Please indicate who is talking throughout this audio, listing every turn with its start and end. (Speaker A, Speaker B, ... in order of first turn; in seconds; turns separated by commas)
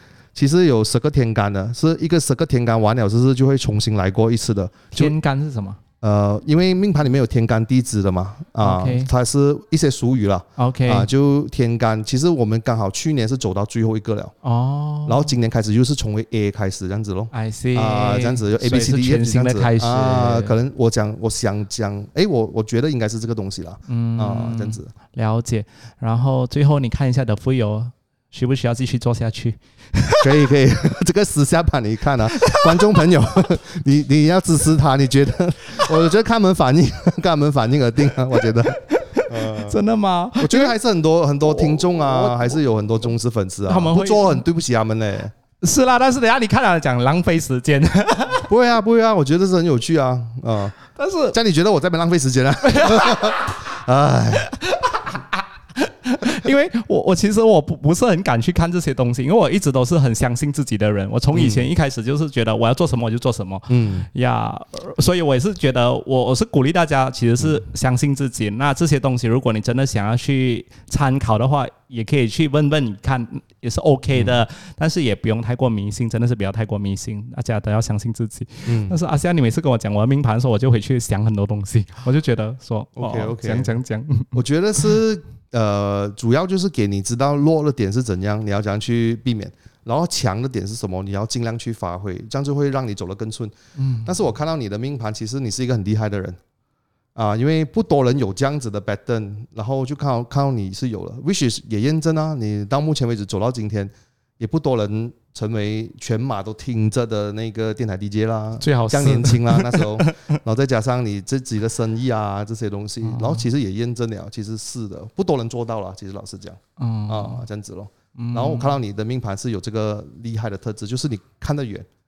Speaker A: 0.3-5.1, Speaker B: 4.9-5.8, Speaker A: 6.0-14.3, Speaker B: 8.6-9.1, Speaker B: 10.6-11.1, Speaker B: 14.4-15.3, Speaker A: 15.1-24.9, Speaker B: 17.3-20.5, Speaker B: 23.9-30.3, Speaker A: 30.2-39.8, Speaker B: 32.4-32.7, Speaker B: 38.7-40.7, Speaker A: 40.4-45.3, Speaker B: 41.4-42.6, Speaker B: 43.7-44.4, Speaker B: 45.6-48.5, Speaker A: 48.5-50.8, Speaker B: 51.0-51.3, Speaker A: 51.3-54.5, Speaker B: 52.6-53.6, Speaker B: 54.3-84.9, Speaker A: 61.3-61.7, Speaker A: 63.7-64.1, Speaker A: 78.6-79.0, Speaker A: 83.0-83.7, Speaker A: 84.3-96.4, Speaker B: 93.7-94.1, Speaker A: 97.1-121.8, Speaker B: 108.6-110.2, Speaker B: 113.0-113.5, Speaker B: 116.8-117.4, Speaker B: 118.2-118.8